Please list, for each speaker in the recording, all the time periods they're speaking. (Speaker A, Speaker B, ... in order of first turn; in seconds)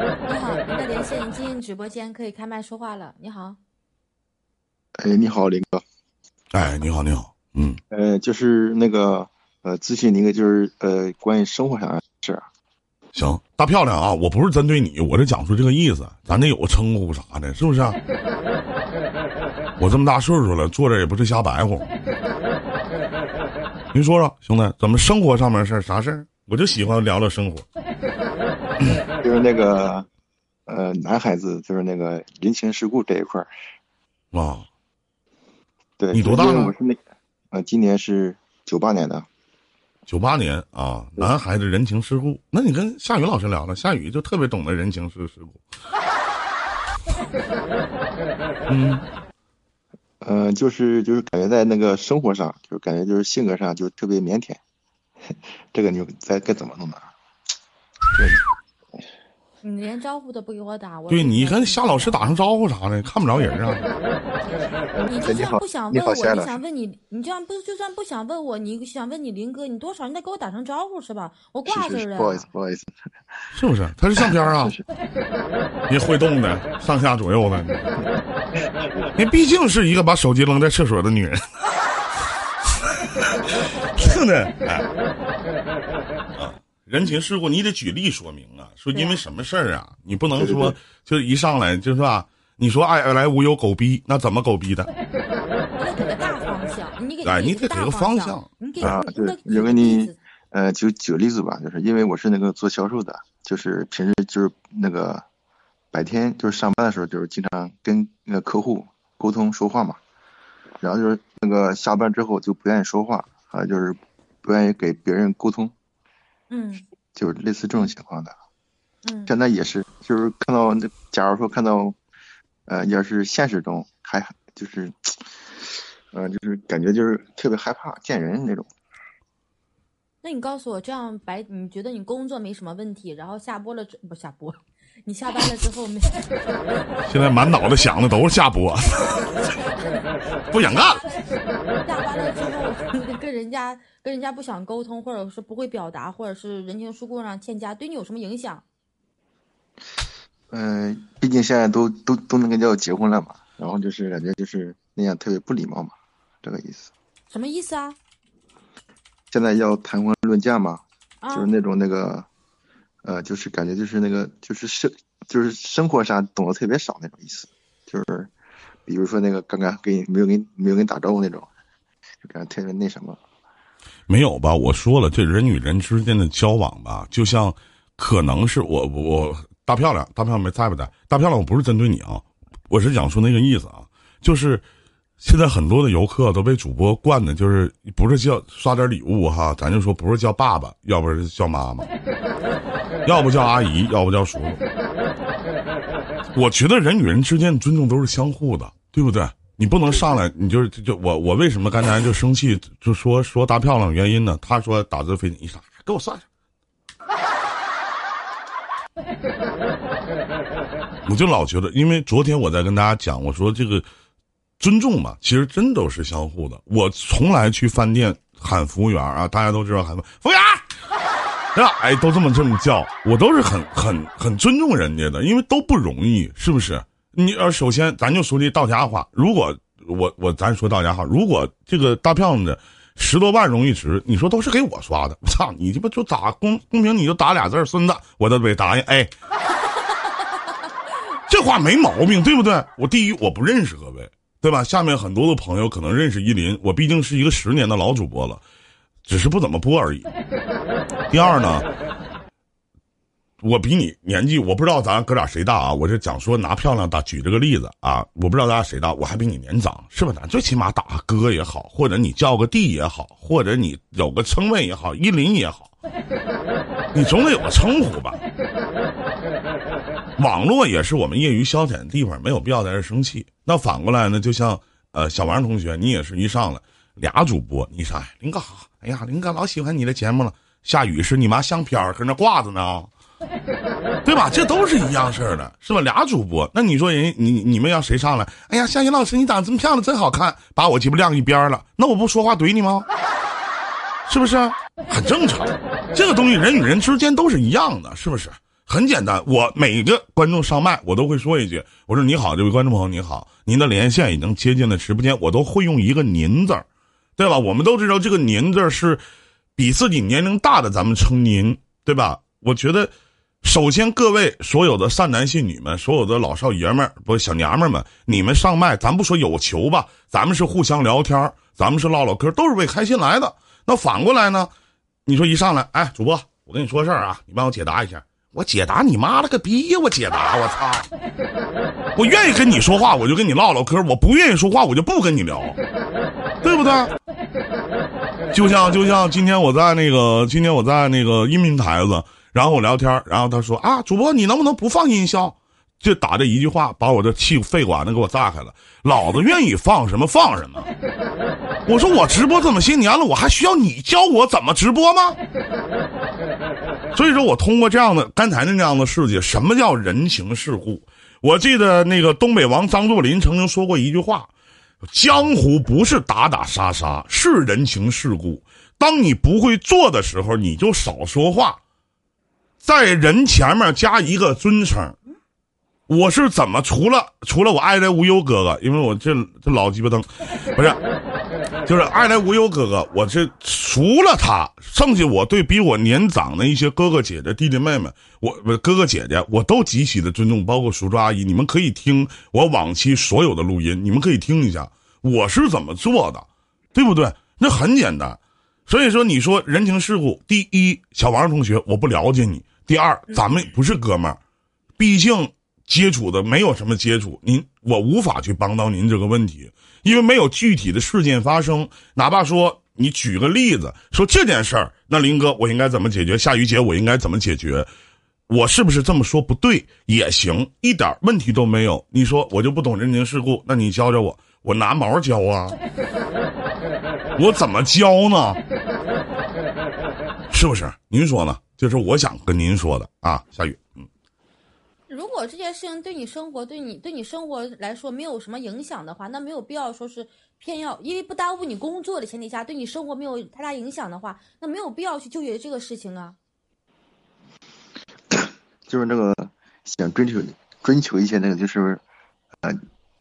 Speaker A: 0.3-3.6, 59.6-62.3, 65.1-72.5, 88.9-89.2, 95.8-100.2, 116.5-116.8, 119.0-119.3, 130.2-136.2, 140.6-141.1, 141.8-148.6, 157.3-158.0, 161.2-161.5, 434.9-446.2
Speaker B: 5.0-5.8, 7.9-12.4, 29.2-30.1, 30.7-33.5, 36.0-37.0, 37.5-39.3, 50.2-54.6, 55.7-57.1, 58.1-58.5, 64.9-66.6, 71.7-72.9, 74.2-74.8, 90.4-90.8, 98.8-105.2, 105.9-110.0, 110.8-115.7, 117.2-118.3, 119.3-122.0, 122.7-128.7, 150.5-156.9, 159.3-162.3, 163.1-168.3, 168.9-171.5, 172.2-173.2, 448.1-451.8
Speaker C: 6.5-7.8, 13.2-18.0, 19.8-21.9, 23.9-27.7, 34.3-34.7, 36.1-36.7, 40.1-45.6, 48.7-49.0, 61.1-63.9, 73.5-74.8, 75.9-77.9, 79.2-81.5, 83.9-84.9, 86.3-94.9, 97.2-99.0, 137.1-139.2, 140.5-141.0, 174.1-184.6, 185.2-191.9, 193.1-194.6, 196.3-206.2, 211.1-213.9, 214.6-220.7, 221.5-239.1, 241.3-248.4, 249.1-250.1, 251.1-251.7, 253.4-265.7, 266.9-268.2, 270.2-282.9, 284.1-292.9, 294.1-306.7, 307.2-309.0, 309.6-312.9, 313.4-324.5, 325.1-330.9, 331.9-335.6, 336.4-336.9, 338.3-350.7, 351.7-355.2, 356.9-364.3, 364.9-371.6, 372.6-375.0, 375.9-380.8, 381.7-404.2, 404.8-417.7, 418.3-425.6, 427.2-428.4, 430.3-433.9